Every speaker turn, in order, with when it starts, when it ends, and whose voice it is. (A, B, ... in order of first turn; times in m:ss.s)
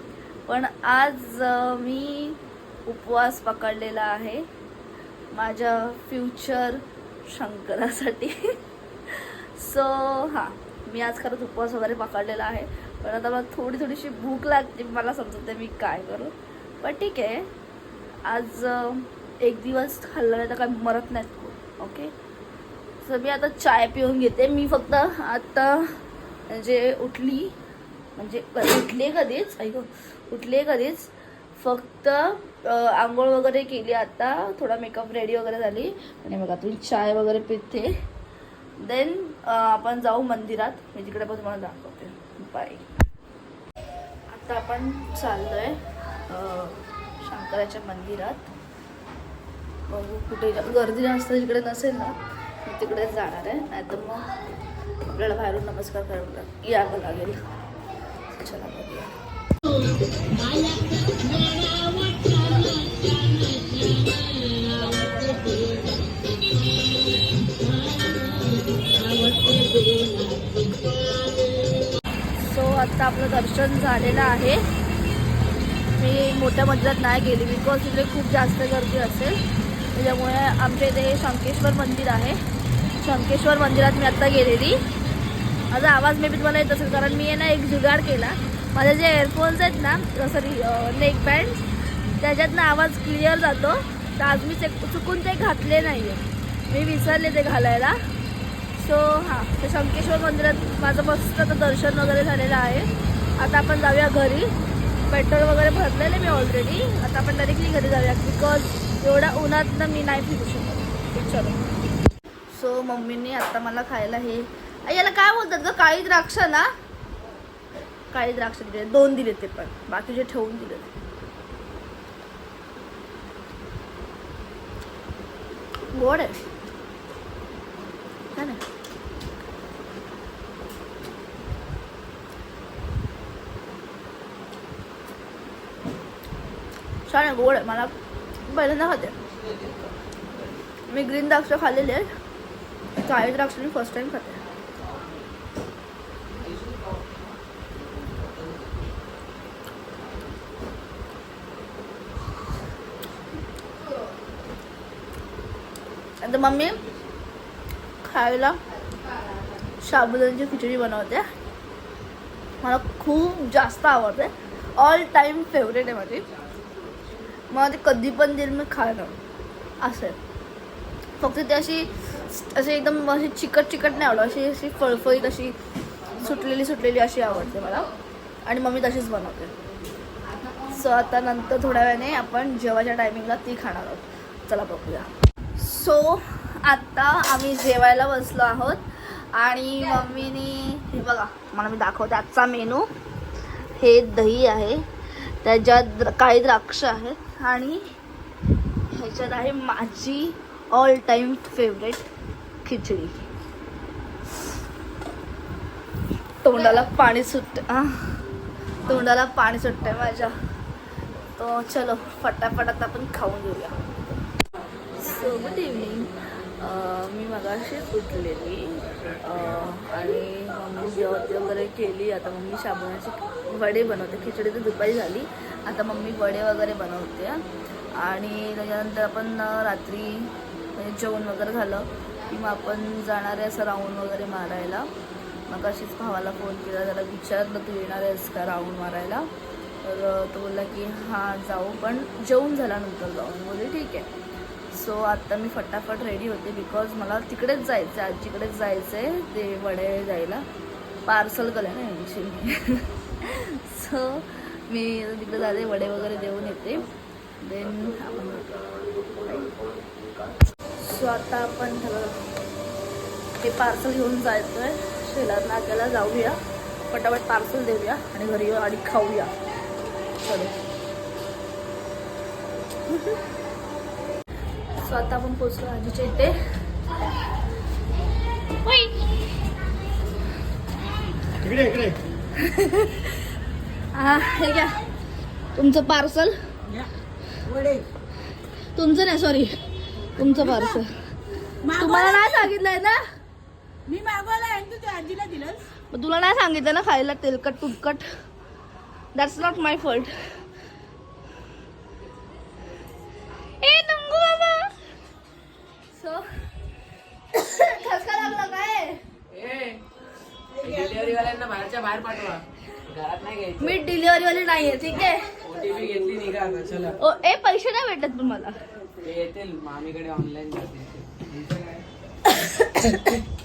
0:00.5-0:04.5 A
0:05.3-0:17.5 A
0:18.3-0:22.1 A
0:23.0-0:27.6 A
0:28.2-0:38.0 A
0:38.8-0:42.9 A
0:44.3-0:48.5 A
0:49.9-0:54.3 A
0:55.1-0:57.4 A
0:58.3-0:59.1 A
1:02.3-1:02.8 A
1:04.8-1:05.7 A
1:09.2-1:09.6 A
1:09.6-1:10.5 B
1:12.4-1:14.6 A
1:16.0-1:19.4 A
1:19.9-1:22.4 A
1:23.0-1:24.8 A
1:25.7-1:38.0 A
1:38.8-1:44.5 A
1:45.1-1:51.6 A
1:52.5-1:56.7 A
1:58.1-2:00.9 A
2:05.9-2:06.4 A
2:08.3-2:08.6 A
2:17.0-2:17.9 A
2:18.4-2:19.2 A
2:19.2-2:20.6 C
2:20.9-2:22.1 A
2:23.0-2:24.4 A
2:24.8-2:25.2 C
2:26.3-2:27.2 C
2:27.7-2:28.9 C
2:36.2-2:36.8 A
2:38.0-2:38.6 A
2:39.8-2:41.3 A
2:42.6-2:46.3 A
2:46.5-2:46.9 C
2:47.5-2:49.2 A
2:49.8-2:50.2 A
2:51.2-2:55.6 A
2:56.1-2:57.9 A
2:58.4-2:59.5 A
3:00.7-3:12.9 A
3:13.5-3:17.9 A
3:18.9-3:22.1 A
3:22.6-3:23.2 A
3:26.4-3:28.2 A
3:28.8-3:30.4 A
3:31.4-3:33.8 A
3:34.9-3:47.4 A
3:48.0-3:54.9 A
3:55.5-3:59.3 A
3:59.8-4:04.1 A
4:04.7-4:10.4 A
4:11.1-4:18.5 A
4:19.2-4:19.6 A
4:20.8-4:22.2 A
4:23.4-4:26.4 A
4:26.9-4:29.3 A
4:30.2-4:30.5 A
4:34.7-4:36.4 A
4:38.6-4:39.0 A
4:41.6-4:41.9 B
4:42.4-4:43.2 A
4:43.9-4:44.8 A
4:45.5-4:46.4 A
4:47.5-4:47.8 B
4:48.7-4:49.6 A
4:50.1-4:51.0 A
4:51.6-4:53.0 A
4:51.7-4:52.3 B
4:53.9-4:55.7 B
4:55.9-4:58.0 A
4:59.1-5:00.3 A
5:03.6-5:04.8 A
5:05.9-5:06.2 A
5:07.3-5:09.0 A
5:09.3-5:09.8 C
5:10.5-5:13.8 C
5:13.6-5:15.3 A
5:15.4-5:17.0 C
5:17.0-5:18.6 A
5:19.0-5:21.8 C
5:22.2-5:23.2 A
5:22.8-5:23.2 C